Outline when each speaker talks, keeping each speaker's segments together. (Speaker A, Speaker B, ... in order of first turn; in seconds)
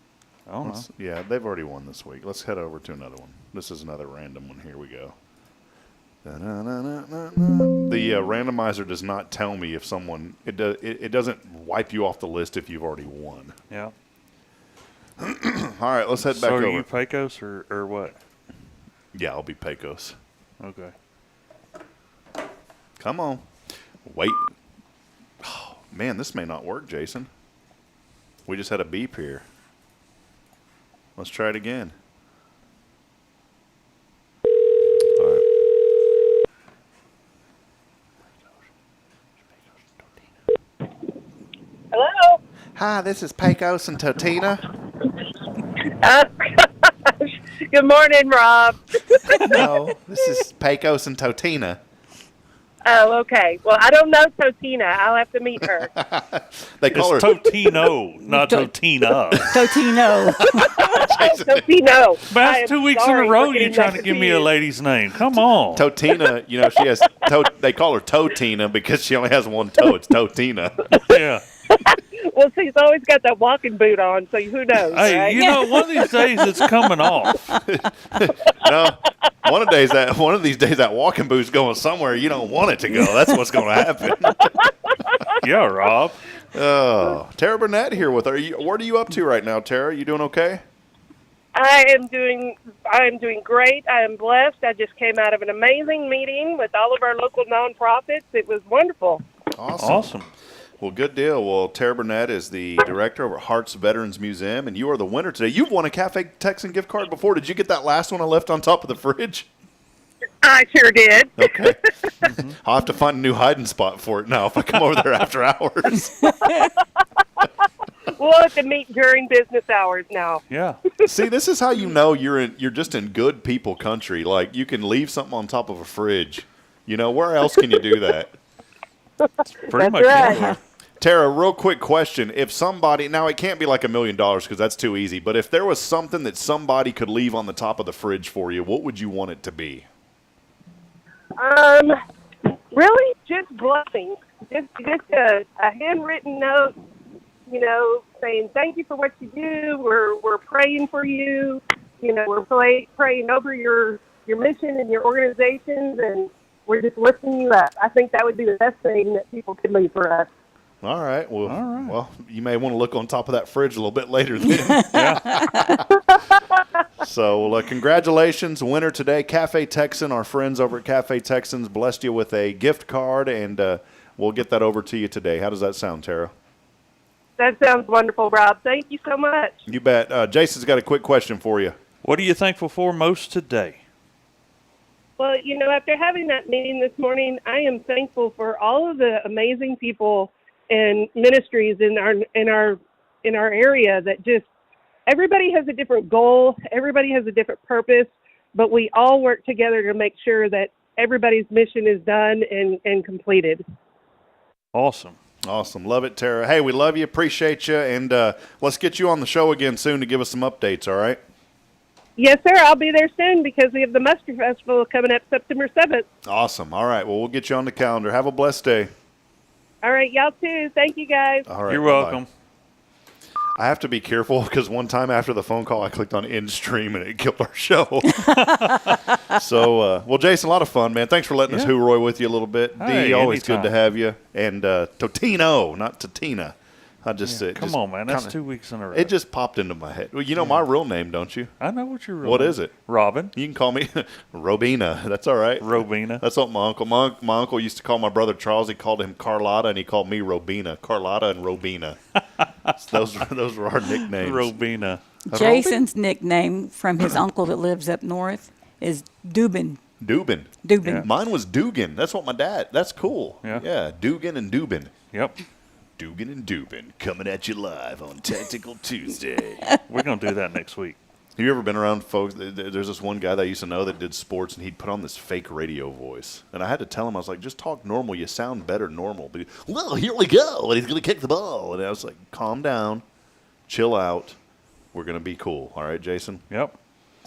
Speaker A: 0.5-0.9, 16.2-18.2, 20.6-20.9, 56.9-59.6, 62.3-65.9, 71.0-71.5, 74.9-77.6, 85.4-86.2, 99.8-100.3, 112.2-112.6, 120.5-120.8, 129.7-130.6, 161.5-162.0, 164.9-165.4, 182.0-183.8, 204.7-205.2, 221.7-222.3, 228.3-229.1, 231.5-231.7, 232.8-233.7, 237.2-239.1, 240.4-240.6, 241.6-243.3, 245.6-246.2, 252.4-252.7, 253.9-255.0, 265.1-265.4, 269.9-271.0, 286.5-286.8
Speaker B: 0.6-5.2, 6.2-13.6, 15.2-16.9, 19.1-20.2, 23.0-23.4, 24.1-24.5, 25.4-27.3, 28.5-29.4, 31.2-31.9, 35.2-35.5, 42.8-44.6, 49.4-51.8, 55.9-57.5, 60.6-61.7, 65.8-71.0, 77.7-84.5, 86.5-90.6, 99.5-100.1, 100.8-109.5, 111.4-116.6, 121.0-128.3, 131.0-139.9, 160.8-165.9, 167.0-176.3, 179.7-181.8, 205.5-211.2, 216.3-218.9, 221.5-222.2, 223.6-228.5, 229.2-238.3, 238.9-241.5, 242.2-242.7, 243.3-252.0, 252.8-254.5, 255.3-255.8, 260.0-264.9, 266.0-269.7, 271.4-283.0, 283.7-284.4, 284.9-286.4
Speaker C: 41.9-42.4, 46.0-49.7, 52.9-55.9, 60.6-64.5, 71.7-76.7, 91.5-99.2, 110.4-111.7, 116.4-117.5, 118.2-120.4, 129.2-130.5, 141.4-142.0, 142.7-146.7, 147.5-160.3, 177.4-179.6, 185.2-194.4, 195.1-203.6, 212.2-216.1, 219.8-221.5
Speaker D: 58.2-58.7, 59.5-60.7, 130.2-130.6, 255.3-259.8, 260.6-261.1